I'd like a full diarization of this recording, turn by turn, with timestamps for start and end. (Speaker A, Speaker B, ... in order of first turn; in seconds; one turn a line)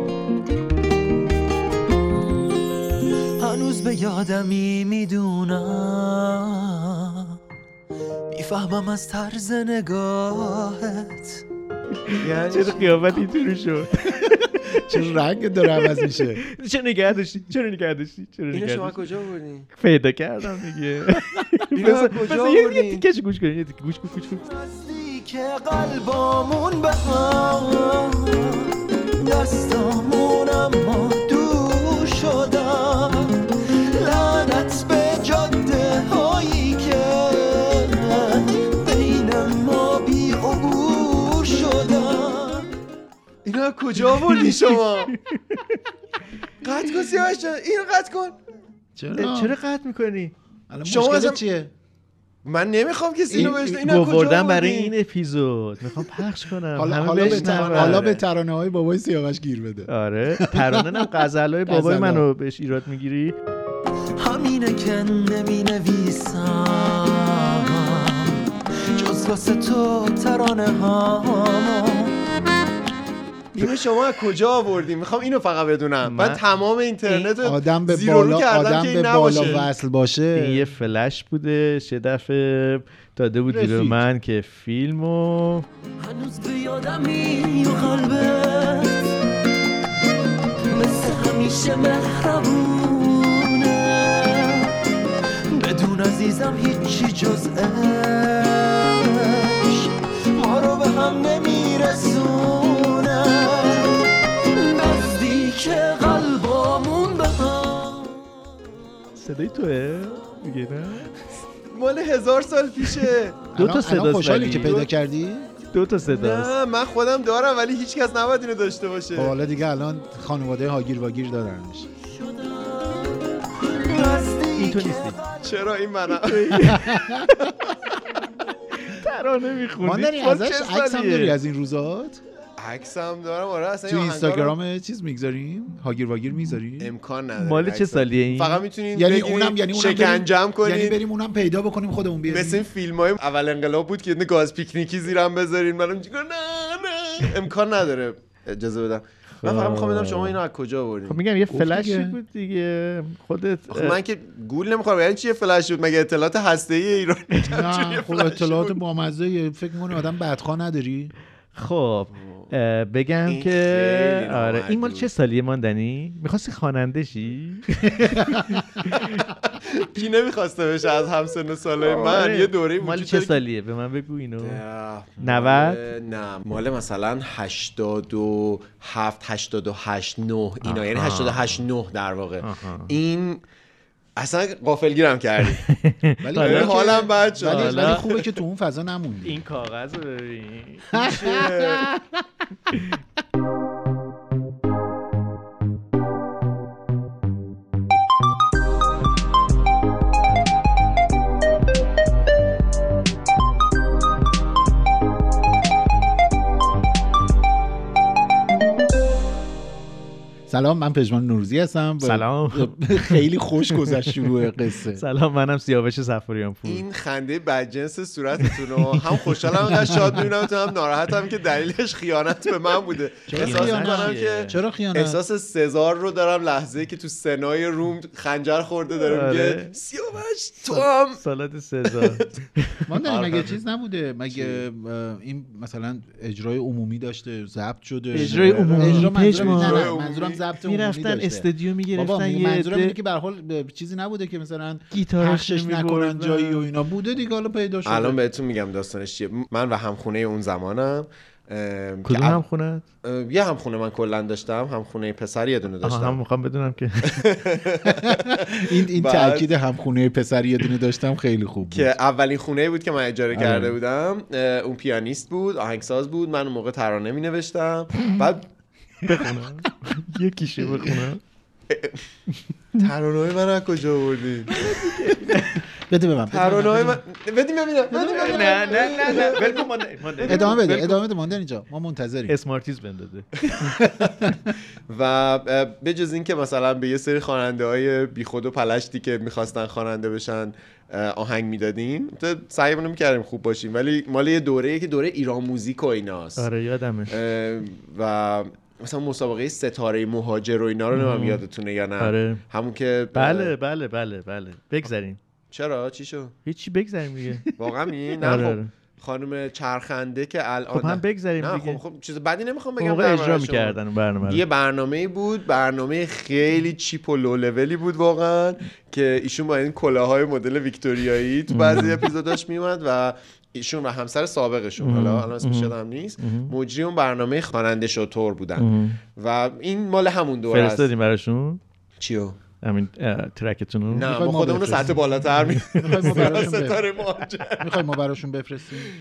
Speaker A: 3.4-7.4
Speaker A: 8.3-11.4
Speaker B: 12.1-14.6
Speaker C: 12.2-13.0
Speaker D: 14.8-16.4
Speaker B: 15.8-19.0
Speaker C: 18.5-19.7
Speaker B: 19.8-24.4
Speaker C: 21.8-23.0
Speaker A: 24.4-33.4
Speaker A: 33.9-42.7
Speaker C: 43.5-45.1
Speaker C: 46.6-48.4
Speaker D: 49.0-49.5
Speaker B: 49.2-50.3
Speaker D: 50.7-51.7
Speaker C: 50.9-51.4
Speaker C: 52.5-54.9
Speaker D: 53.3-53.8
Speaker B: 53.4-58.2
Speaker D: 56.8-61.1
Speaker C: 57.2-58.1
Speaker B: 59.9-63.4
Speaker D: 61.7-62.2
Speaker A: 64.2-72.2
Speaker C: 73.6-79.7
Speaker B: 76.0-76.4
Speaker D: 77.4-80.6
Speaker B: 80.4-85.7
Speaker D: 83.5-84.0
Speaker A: 86.0-89.2
Speaker A: 90.7-94.8
Speaker A: 95.5-108.4
Speaker B: 109.2-111.1
Speaker C: 111.7-113.4
Speaker D: 113.5-115.5
Speaker B: 113.6-114.9
Speaker B: 115.7-116.5
Speaker C: 116.1-119.3
Speaker D: 119.1-121.9
Speaker A: 122.1-125.5
Speaker B: 124.6-125.2
Speaker C: 125.4-126.7
Speaker B: 126.2-127.5
Speaker D: 126.7-127.5
Speaker B: 128.7-131.4
Speaker D: 129.8-132.2
Speaker C: 132.6-134.6
Speaker D: 133.9-136.9
Speaker C: 136.8-141.0
Speaker B: 137.4-138.6
Speaker D: 138.9-142.6
Speaker C: 142.3-151.2
Speaker B: 149.4-150.4
Speaker B: 151.1-154.0
Speaker D: 151.5-152.2
Speaker C: 153.7-158.8
Speaker D: 157.5-161.1
Speaker B: 161.6-169.2
Speaker C: 162.2-162.5
Speaker C: 163.3-165.1
Speaker D: 168.0-168.6
Speaker C: 168.9-173.4
Speaker B: 171.9-174.6
Speaker C: 174.4-183.4
Speaker B: 175.2-175.8
Speaker B: 180.6-181.6
Speaker B: 182.4-182.9
Speaker C: 184.2-185.6
Speaker B: 185.7-188.1
Speaker D: 186.2-189.4
Speaker C: 186.4-188.2
Speaker B: 189.2-191.2
Speaker D: 190.9-192.2
Speaker C: 191.1-191.9
Speaker D: 210.5-215.0
Speaker B: 212.0-213.2
Speaker B: 213.9-214.3
Speaker B: 214.9-216.8
Speaker C: 216.7-231.2
Speaker B: 219.5-220.2
Speaker D: 219.8-220.2
Speaker D: 223.3-225.2
Speaker B: 223.4-224.6
Speaker B: 229.0-229.7
Speaker B: 231.2-232.8
Speaker C: 232.0-232.3
Speaker D: 232.9-248.2
Speaker C: 233.1-233.4
Speaker C: 234.3-234.6
Speaker B: 238.1-239.9
Speaker C: 238.7-240.4
Speaker B: 240.6-243.0
Speaker B: 244.9-246.7
Speaker C: 247.8-252.4
Speaker B: 252.1-252.8
Speaker C: 253.0-256.2
Speaker B: 255.8-257.2
Speaker C: 257.2-259.5
Speaker D: 258.0-261.9
Speaker C: 261.7-268.4
Speaker B: 263.4-263.7
Speaker B: 269.0-271.2
Speaker C: 271.7-272.0
Speaker C: 272.8-275.3
Speaker B: 274.5-275.6
Speaker D: 275.9-277.0
Speaker C: 276.3-280.6
Speaker D: 277.9-279.2
Speaker B: 277.9-281.0
Speaker D: 280.3-282.4
Speaker B: 282.3-283.3
Speaker D: 283.6-284.4
Speaker C: 284.9-296.5
Speaker B: 296.4-297.1
Speaker C: 297.1-303.5
Speaker B: 300.9-301.4
Speaker B: 302.0-302.4
Speaker B: 303.1-305.2
Speaker C: 305.5-306.3
Speaker B: 306.5-307.5
Speaker C: 307.6-330.9
Speaker B: 308.2-308.7
Speaker B: 310.7-311.8
Speaker B: 312.8-314.4
Speaker B: 321.5-322.1
Speaker B: 324.8-326.5
Speaker B: 328.6-329.0
Speaker B: 330.5-331.6
Speaker C: 332.0-332.4
Speaker B: 332.6-334.1
Speaker C: 333.9-337.8
Speaker D: 334.1-335.0
Speaker B: 335.4-336.4
Speaker D: 335.8-336.8
Speaker D: 337.6-338.9